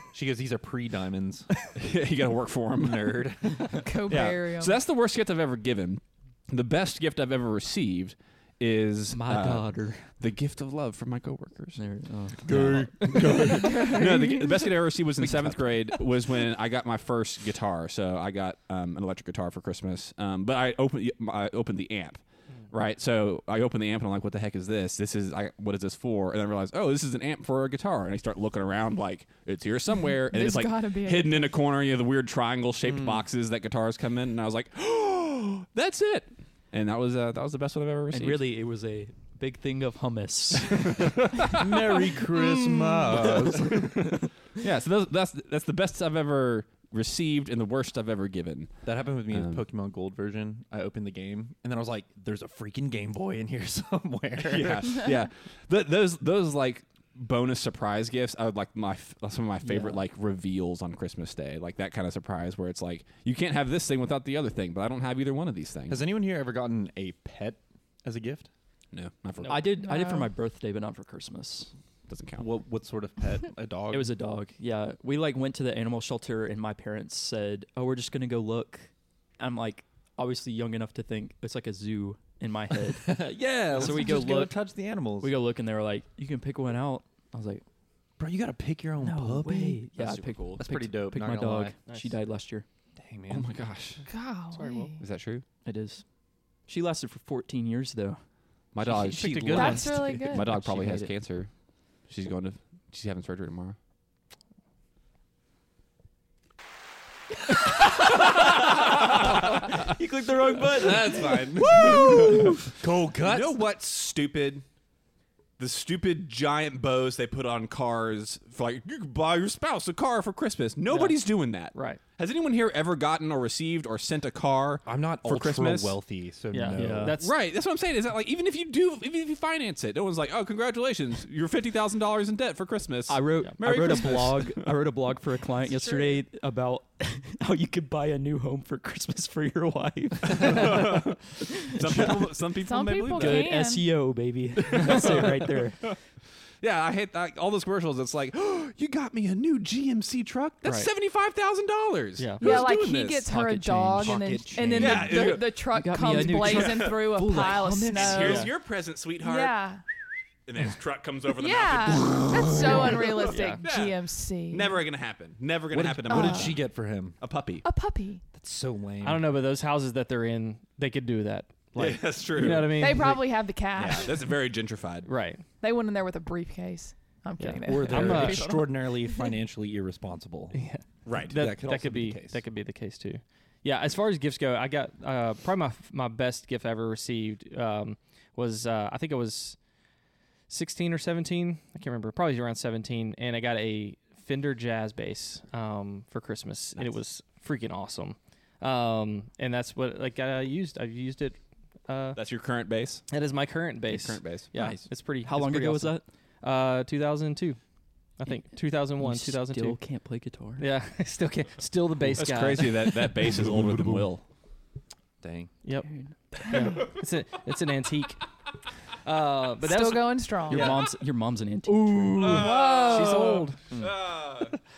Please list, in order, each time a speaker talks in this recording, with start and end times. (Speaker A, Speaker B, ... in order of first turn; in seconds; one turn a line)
Speaker A: 0.1-1.5
Speaker B: 1.8-3.3
Speaker A: 2.8-3.8
Speaker C: 3.8-4.8
Speaker B: 4.1-11.8
Speaker D: 9.1-10.1
Speaker D: 11.8-13.7
Speaker A: 12.4-13.7
Speaker B: 12.5-38.4
Speaker C: 13.5-14.7
Speaker A: 15.2-15.8
Speaker C: 30.3-31.6
Speaker A: 32.9-33.2
Speaker D: 38.1-41.5
Speaker B: 40.8-41.8
Speaker A: 41.5-44.2
Speaker B: 42.3-49.6
Speaker A: 48.8-55.1
Speaker B: 54.4-66.1
Speaker A: 65.9-68.5
Speaker B: 68.9-69.9
Speaker D: 69.5-71.7
Speaker C: 69.9-70.3
Speaker B: 72.1-72.5
Speaker A: 72.4-74.1
Speaker D: 73.9-84.7
Speaker A: 82.9-85.3
Speaker D: 85.2-87.6
Speaker A: 88.2-89.9
Speaker D: 89.0-92.7
Speaker B: 90.0-90.6
Speaker A: 90.6-91.8
Speaker E: 91.9-92.1
Speaker A: 93.0-93.5
Speaker B: 93.3-94.1
Speaker C: 94.1-95.0
Speaker E: 94.5-94.9
Speaker B: 95.0-95.5
Speaker D: 95.7-96.0
Speaker D: 96.7-98.2
Speaker B: 98.7-101.5
Speaker E: 99.0-100.1
Speaker A: 99.2-99.8
Speaker C: 99.5-100.5
Speaker D: 99.6-101.1
Speaker B: 102.1-103.8
Speaker D: 107.8-112.5
Speaker B: 108.1-109.4
Speaker B: 110.3-110.9
Speaker A: 110.7-113.6
Speaker B: 111.6-112.7
Speaker B: 113.2-114.7
Speaker B: 115.6-126.0
Speaker E: 120.9-121.2
Speaker E: 121.7-122.0
Speaker A: 124.8-127.1
Speaker E: 126.5-127.3
Speaker D: 126.7-127.2
Speaker B: 127.2-134.8
Speaker D: 133.1-141.0
Speaker B: 140.3-143.5
Speaker D: 141.6-142.2
Speaker C: 142.6-143.9
Speaker D: 143.1-146.0
Speaker B: 144.6-145.9
Speaker B: 146.6-153.3
Speaker E: 152.2-152.4
Speaker C: 152.4-158.5
Speaker D: 153.3-158.5
Speaker A: 154.0-155.1
Speaker B: 154.8-157.1
Speaker B: 157.9-159.6
Speaker E: 158.2-158.5
Speaker C: 159.2-159.8
Speaker B: 160.5-166.6
Speaker C: 161.4-164.8
Speaker A: 162.0-163.2
Speaker E: 163.3-163.6
Speaker A: 165.7-167.2
Speaker C: 166.1-166.6
Speaker B: 167.2-167.7
Speaker C: 167.6-168.2
Speaker A: 168.3-169.3
Speaker E: 169.0-173.2
Speaker B: 171.8-173.1
Speaker C: 172.8-174.2
Speaker B: 173.8-175.1
Speaker E: 175.1-175.4
Speaker C: 175.6-179.3
Speaker E: 177.4-178.6
Speaker A: 177.6-180.6
Speaker E: 180.5-189.6
Speaker B: 181.1-181.4
Speaker A: 181.3-182.4
Speaker E: 190.5-202.2
Speaker B: 202.2-203.0
Speaker E: 203.1-207.6
Speaker B: 203.9-204.5
Speaker D: 204.6-206.0
Speaker E: 208.2-209.8
Speaker D: 209.0-210.7
Speaker E: 210.6-213.1
Speaker B: 212.2-214.2
Speaker A: 213.4-214.1
Speaker A: 215.2-215.5
Speaker E: 215.6-218.3
Speaker D: 215.9-216.8
Speaker E: 219.0-220.9
Speaker C: 219.6-220.8
Speaker D: 220.5-222.4
Speaker E: 221.7-223.6
Speaker B: 222.2-224.5
Speaker C: 222.2-223.5